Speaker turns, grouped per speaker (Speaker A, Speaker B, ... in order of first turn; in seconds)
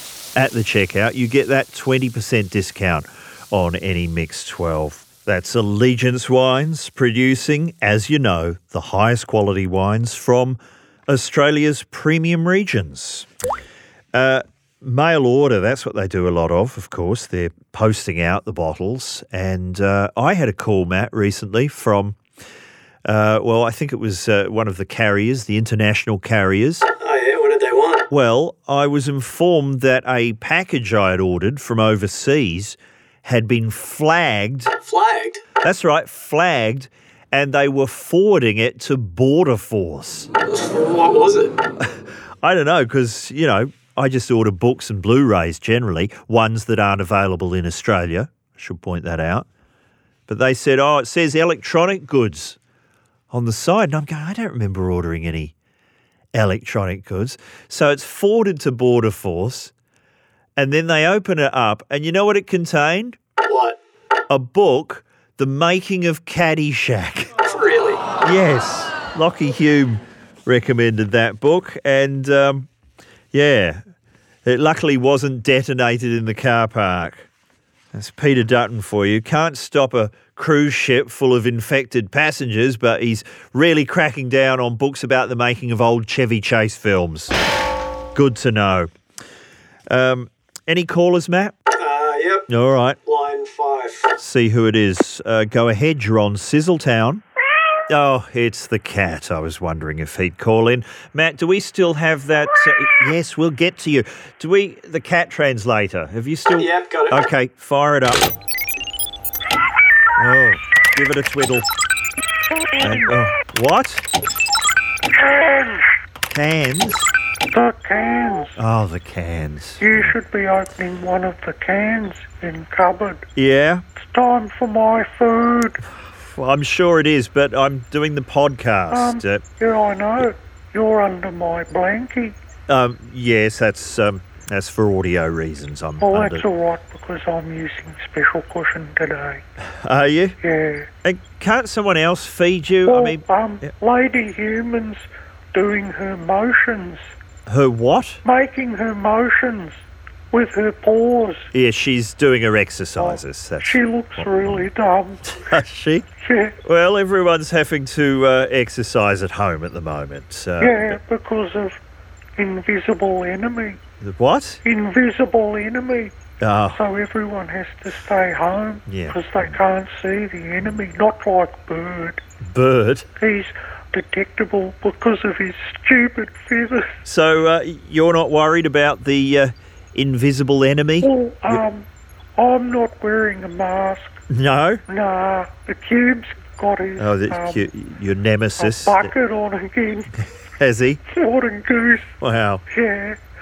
Speaker A: 0.3-13.3, 14.1-22.2, 23.1-26.9, 28.1-34.7, 35.6-40.3, 41.8-49.5, 50.3-52.6, 53.3-55.5, 56.3-59.7, 60.6-63.2, 64.3-67.4, 68.2-72.7, 73.3-73.8, 74.5-77.3, 77.9-87.3, 88.1-88.9, 89.9-91.5, 92.5-93.0, 94.2-97.2, 97.9-108.3, 110.2-111.7, 112.8-114.1, 116.3-117.1, 118.6-120.2, 123.4-123.8, 126.0-129.4, 132.7-136.4, 139.8-140.4, 141.0-143.7, 147.5-148.2, 151.5-154.7, 155.3-156.1, 156.6-161.0, 164.0-164.6, 166.4-166.8, 168.9-169.6, 172.4-173.1, 177.1-181.6, 184.3-184.8, 187.0-189.1, 190.6-191.0, 192.2-192.6
Speaker B: 27.0-28.1, 34.8-35.4, 40.5-41.6, 63.5-63.8, 67.5-68.1, 91.8-92.5, 93.0-94.1, 106.5-107.2
Speaker C: 115.3-115.8, 117.5-118.6, 119.8-123.3, 124.0-125.8, 128.9-132.3, 136.0-139.4, 140.4-140.9, 142.9-147.1, 148.2-151.5, 153.0-155.4, 156.2-156.6, 160.6-161.8, 162.4-163.8, 164.6-166.1, 166.7-172.2, 173.2-176.9, 181.0-184.2, 184.9-187.7, 188.6-190.3, 191.1-192.1, 192.7-193.2